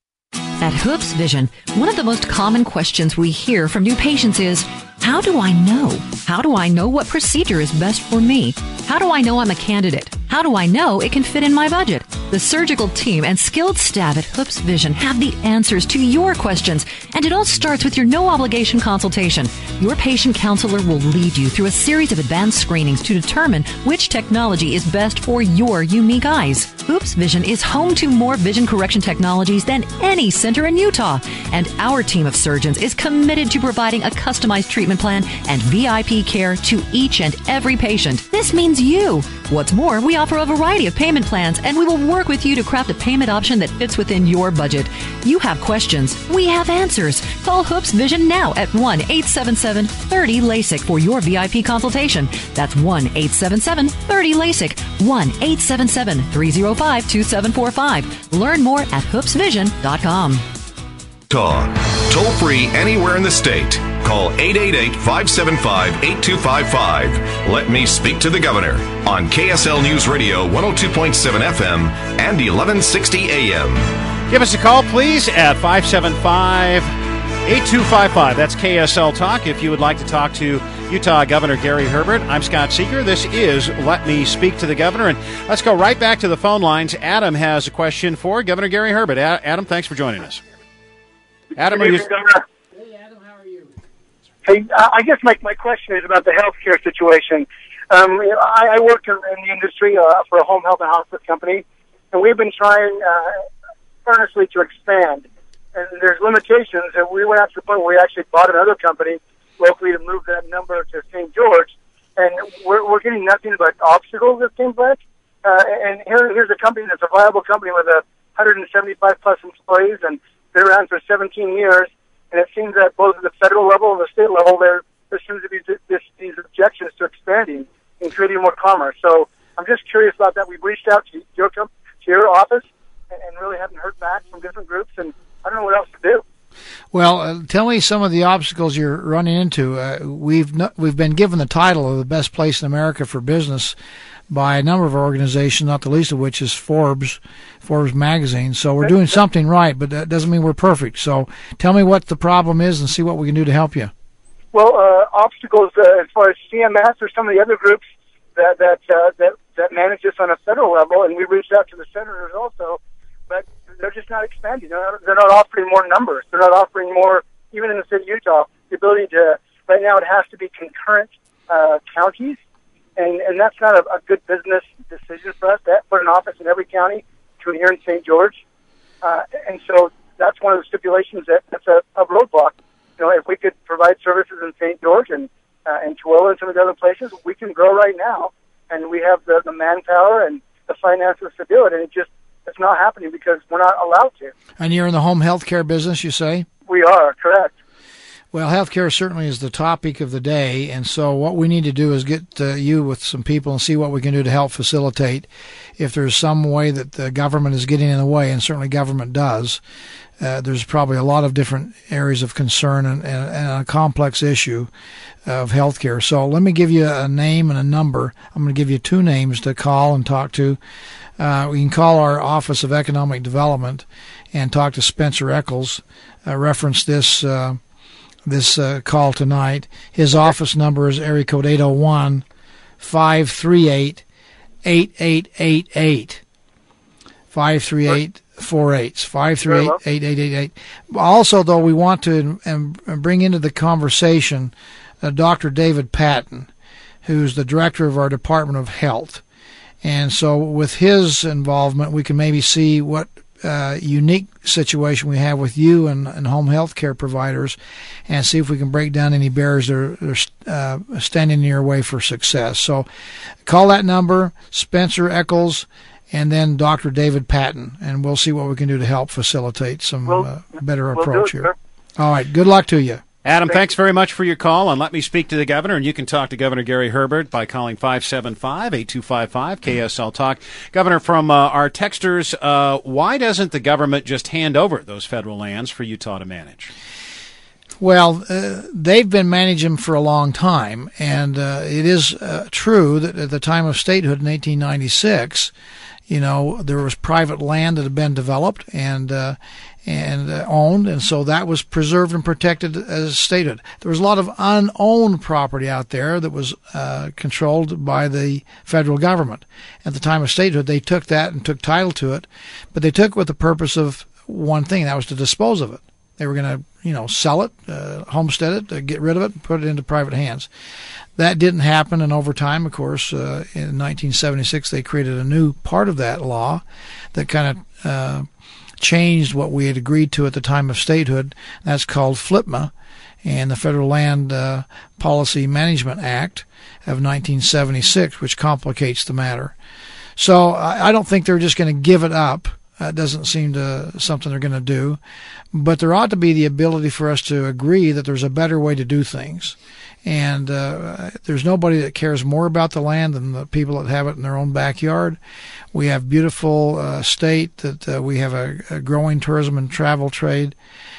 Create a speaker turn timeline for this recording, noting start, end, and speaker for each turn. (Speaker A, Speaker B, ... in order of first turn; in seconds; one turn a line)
Speaker A: 0.6-60.4
Speaker B: 61.3-73.9
Speaker C: 74.3-76.9
Speaker C: 77.5-90.4
Speaker C: 91.5-92.1
Speaker D: 91.6-92.4
Speaker D: 94.4-103.4
Speaker D: 104.0-136.2
Speaker E: 136.9-143.8
Speaker E: 144.3-153.9
Speaker D: 154.5-162.8
Speaker D: 163.3-172.4
Speaker D: 173.0-178.4
Speaker D: 179.0-194.3
Speaker E: 194.6-196.4
Speaker D: 196.7-197.5
Speaker E: 198.3-209.6
Speaker E: 210.2-214.7
Speaker E: 215.2-220.6
Speaker E: 221.2-227.6
Speaker E: 228.2-232.2
Speaker E: 232.8-234.0
Speaker E: 234.6-236.2
Speaker E: 237.3-246.5
Speaker D: 239.4-239.8
Speaker E: 247.0-249.2
Speaker E: 249.8-257.6
Speaker E: 258.1-262.9
Speaker E: 263.4-273.0
Speaker D: 270.9-271.5
Speaker C: 273.2-286.7
Speaker E: 287.8-295.5
Speaker E: 296.1-320.5
Speaker E: 321.2-328.2
Speaker E: 328.8-332.7
Speaker E: 333.2-339.5
Speaker E: 340.2-345.0
Speaker E: 345.5-355.2
Speaker E: 355.7-360.6